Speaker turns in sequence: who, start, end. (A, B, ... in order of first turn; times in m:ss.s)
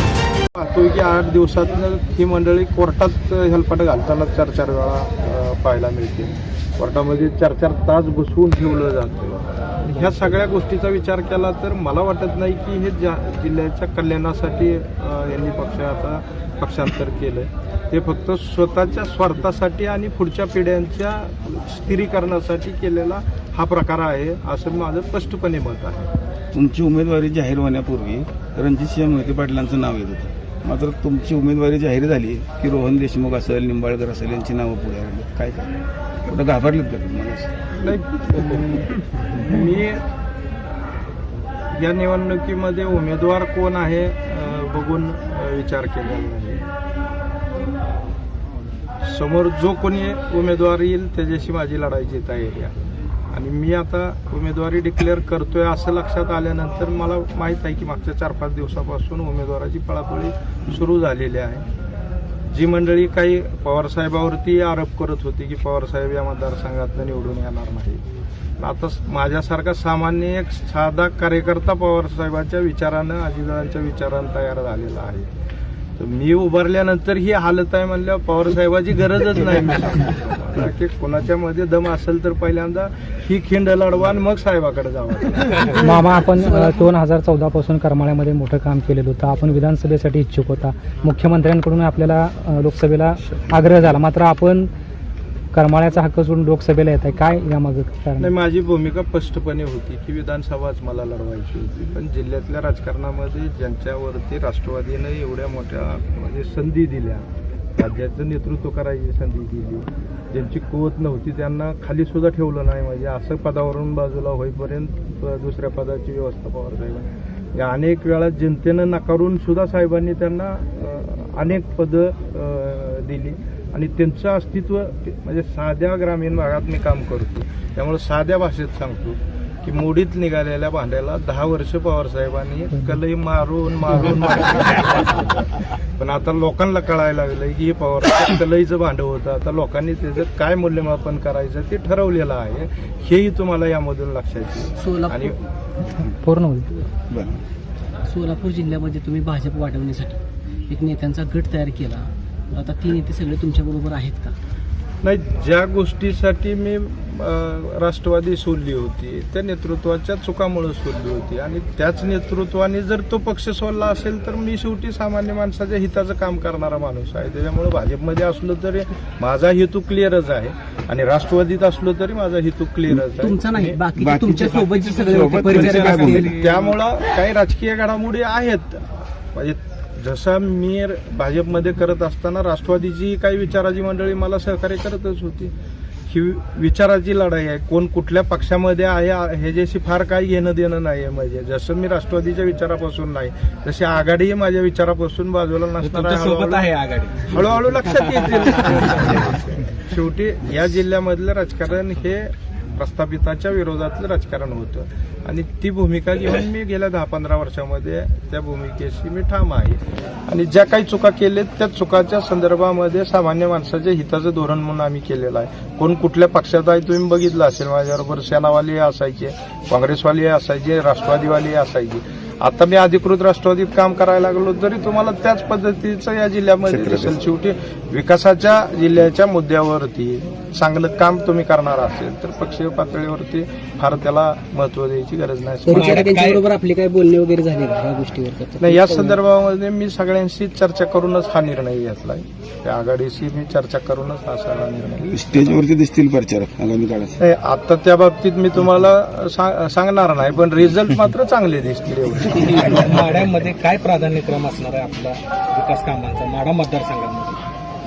0:00.6-0:26.1 A
0:26.5-0:35.7 B
0:36.2-0:37.5 B
0:37.7-0:40.0 A
0:41.7-0:46.6 A
0:49.0-0:52.8 A
0:53.3-1:01.7 A
1:02.5-1:08.0 A
1:08.6-1:15.3 A
1:16.0-1:25.8 A
1:25.8-1:34.7 C
1:26.5-1:26.8 D
1:35.5-1:38.3 C
1:38.2-1:47.3 A
1:47.8-2:25.4 A
2:24.8-2:25.3 D
2:26.2-2:26.7 C
2:27.1-2:27.4 B
2:28.1-2:34.3 D
2:35.0-2:53.8 A
2:53.1-2:56.3 D
2:54.0-2:56.3 B
2:54.3-2:56.6 E
2:56.2-3:05.5 A
3:06.1-3:16.7 A
3:15.8-3:18.9 E
3:17.2-3:56.1 A
3:46.7-3:47.1 B
3:55.7-3:59.2 D
3:55.7-3:56.4 E
3:58.6-4:05.6 A
4:05.1-4:07.2 B
4:07.2-4:13.0 A
4:12.5-4:17.4 E